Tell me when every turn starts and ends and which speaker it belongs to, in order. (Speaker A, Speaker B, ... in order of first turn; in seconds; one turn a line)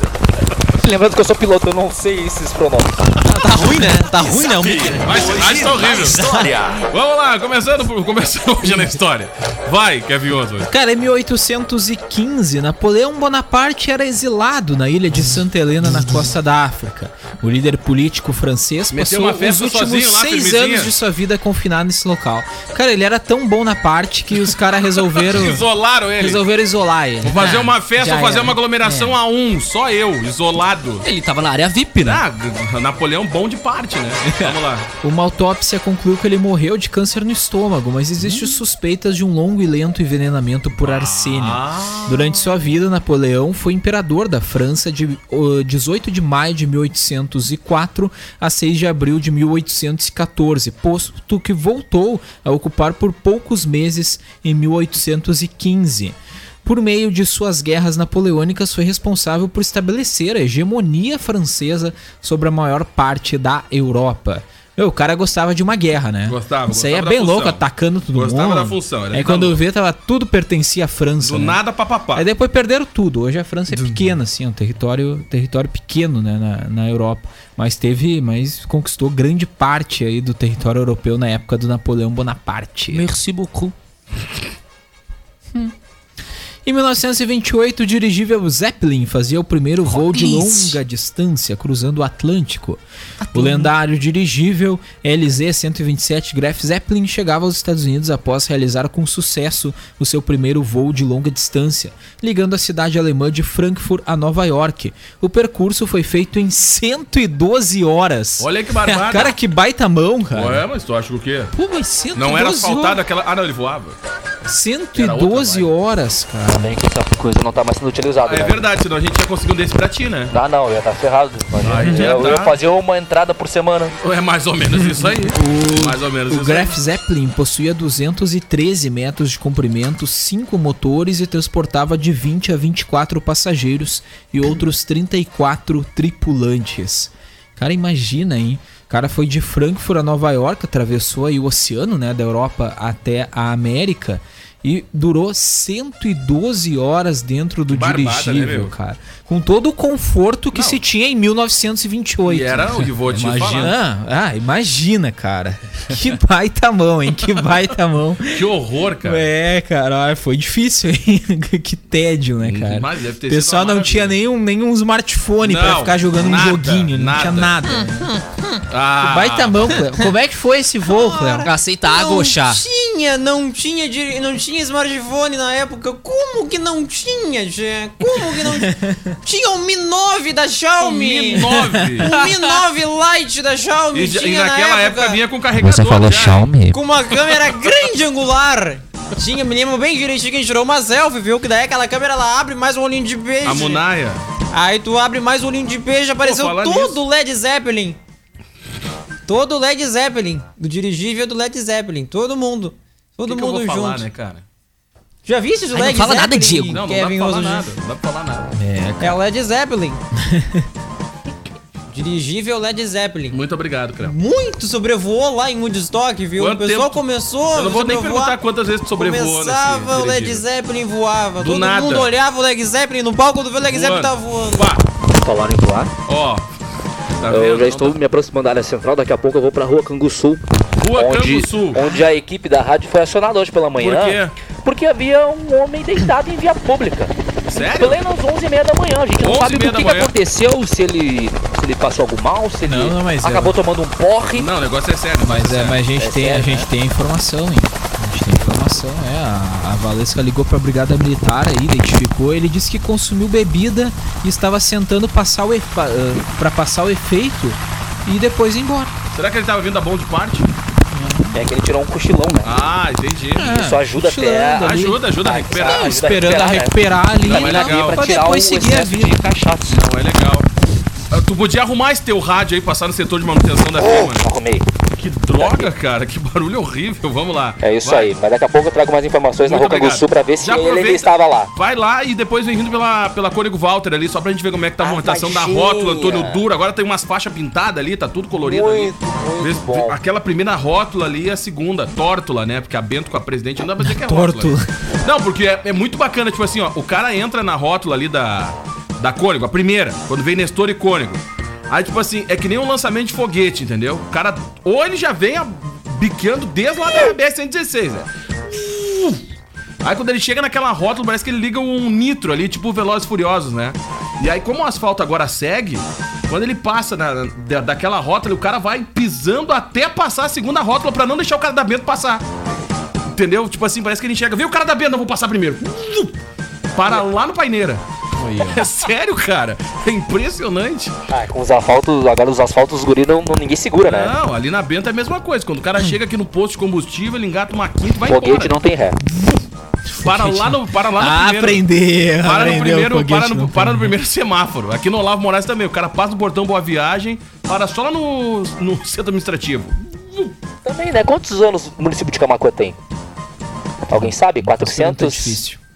Speaker A: 0.7-3.1
Speaker B: 3.2-6.5
Speaker A: 4.6-6.7
Speaker C: 5.0-6.2
Speaker C: 6.7-10.7
Speaker D: 10.7-25.6
Speaker C: 18.9-20.9
Speaker C: 25.1-26.4
Speaker D: 26.2-29.1
Speaker C: 27.2-31.1
Speaker E: 31.0-32.2
Speaker C: 32.0-34.9
Speaker D: 34.5-71.6
Speaker C: 40.8-42.5
Speaker C: 66.2-69.6
Speaker C: 71.2-72.3
Speaker D: 72.1-83.1
Speaker E: 73.7-74.0
Speaker E: 82.9-83.7
Speaker D: 86.6-92.8
Speaker E: 89.9-90.7
Speaker E: 93.2-93.7
Speaker D: 93.3-110.7
Speaker C: 108.4-109.3
Speaker C: 110.3-111.5
Speaker D: 111.5-113.0
Speaker C: 112.2-114.0
Speaker D: 114.5-116.7
Speaker C: 114.9-115.7
Speaker A: 116.5-118.6
Speaker C: 118.2-120.3
Speaker A: 120.3-123.9
Speaker C: 121.6-122.6
Speaker D: 121.8-122.2
Speaker C: 124.0-126.8
Speaker D: 124.7-152.9
Speaker C: 147.7-148.7
Speaker C: 150.5-150.8
Speaker C: 152.2-153.7
Speaker E: 153.0-153.8
Speaker D: 153.6-158.5
Speaker C: 158.3-159.3
Speaker D: 159.0-168.1
Speaker C: 162.4-164.2
Speaker C: 165.4-167.5
Speaker B: 167.7-168.6
Speaker C: 168.7-169.8
Speaker D: 169.0-171.5
Speaker B: 170.9-185.2
Speaker E: 171.4-172.6
Speaker D: 178.5-179.0
Speaker C: 180.8-182.1
Speaker D: 181.4-182.4
Speaker C: 183.9-186.5
Speaker A: 185.6-186.8
Speaker B: 186.7-193.8
Speaker C: 193.4-194.2
Speaker B: 194.5-198.0
Speaker C: 196.2-197.0
Speaker B: 199.3-204.1
Speaker C: 203.2-204.4
Speaker B: 205.2-207.7
Speaker E: 205.7-206.8
Speaker C: 206.7-208.5
Speaker D: 208.6-209.2
Speaker B: 209.0-210.0
Speaker D: 210.1-210.7
Speaker B: 211.9-213.4
Speaker C: 213.3-214.2
Speaker B: 214.0-218.4
Speaker C: 216.4-217.0
Speaker C: 217.5-220.4
Speaker B: 218.9-224.7
Speaker C: 221.4-222.1
Speaker C: 223.7-224.8
Speaker A: 225.1-225.9
Speaker C: 226.1-226.4
Speaker C: 227.2-228.0
Speaker A: 227.3-230.4
Speaker C: 230.8-231.9
Speaker A: 230.9-244.5
Speaker C: 233.8-234.3
Speaker C: 237.5-238.0
Speaker C: 239.2-240.1
Speaker D: 242.6-243.6
Speaker C: 244.3-245.8
Speaker D: 245.2-258.9
Speaker A: 246.0-246.7
Speaker C: 259.1-260.5
Speaker D: 260.9-261.4
Speaker A: 261.3-262.6
Speaker C: 262.4-263.5
Speaker D: 263.4-265.0
Speaker A: 263.4-269.8
Speaker C: 264.6-266.2
Speaker D: 265.6-269.2
Speaker C: 267.2-268.0
Speaker C: 269.7-270.5
Speaker C: 271.1-274.2
Speaker A: 273.8-274.7
Speaker C: 275.0-278.1
Speaker A: 275.4-275.7
Speaker A: 277.6-281.5
Speaker C: 279.4-309.2
Speaker A: 284.8-286.4
Speaker A: 288.3-290.0
Speaker D: 293.8-294.7
Speaker C: 309.8-322.2
Speaker C: 323.1-326.2
Speaker C: 326.7-330.9
Speaker A: 331.1-334.1
Speaker C: 333.8-338.5
Speaker A: 338.0-339.0
Speaker D: 339.9-343.9
Speaker C: 340.0-341.6
Speaker C: 342.2-350.3
Speaker A: 350.6-352.8
Speaker A: 353.9-355.4
Speaker D: 353.9-355.6